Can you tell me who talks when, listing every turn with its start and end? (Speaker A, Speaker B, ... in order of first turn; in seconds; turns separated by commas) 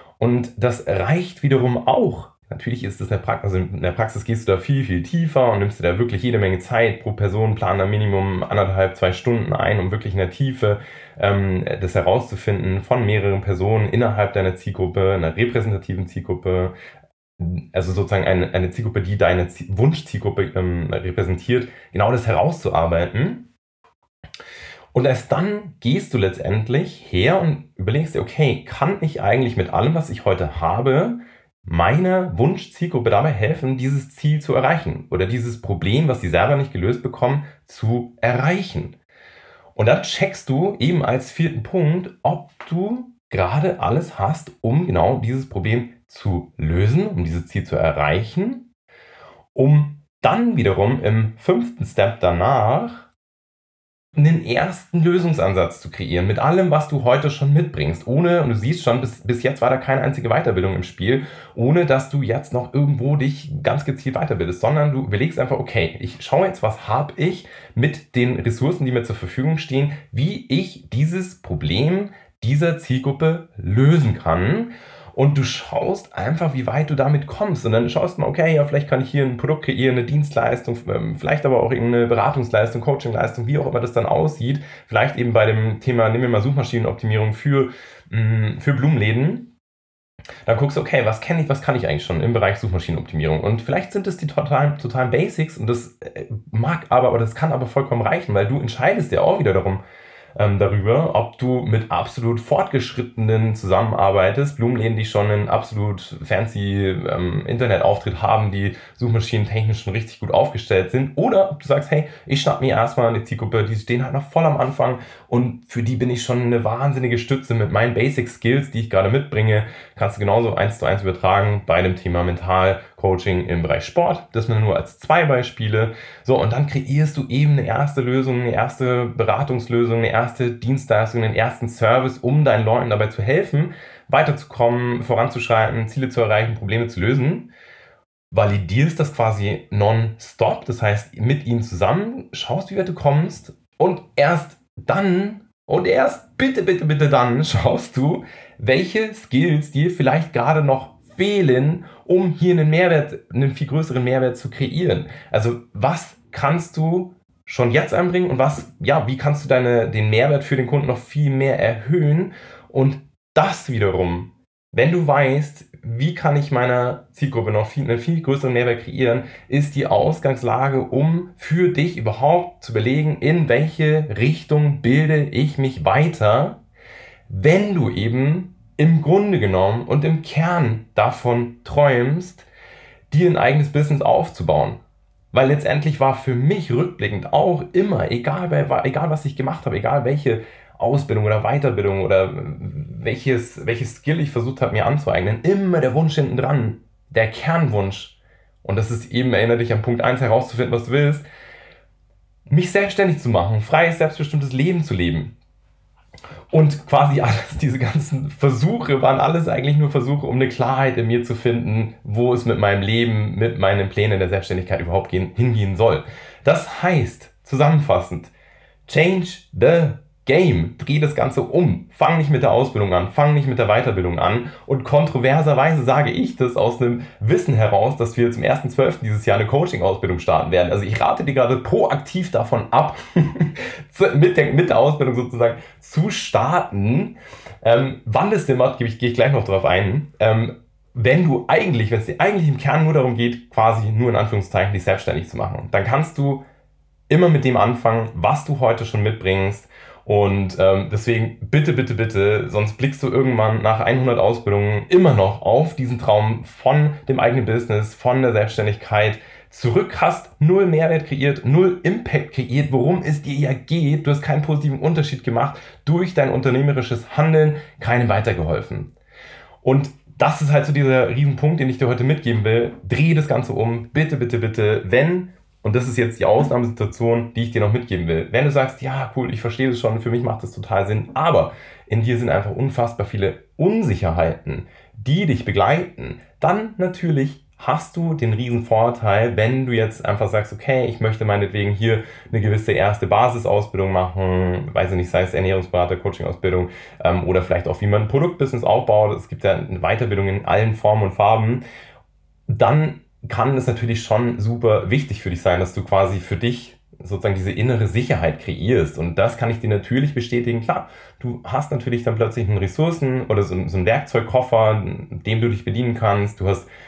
Speaker A: 0.2-16.7, Speaker A: 17.4-23.5, Speaker A: 24.9-39.0, Speaker A: 39.8-48.7, Speaker A: 49.5-53.1, Speaker A: 54.1-89.5, Speaker A: 90.5-99.8, Speaker A: 100.4-137.5, Speaker A: 138.3-176.6, Speaker A: 177.3-182.5, Speaker A: 183.1-184.8, Speaker A: 185.3-201.3, Speaker A: 202.5-205.3, Speaker A: 206.5-218.3, Speaker A: 218.9-246.4, Speaker A: 247.1-268.9, Speaker A: 269.6-301.6, Speaker A: 302.5-316.7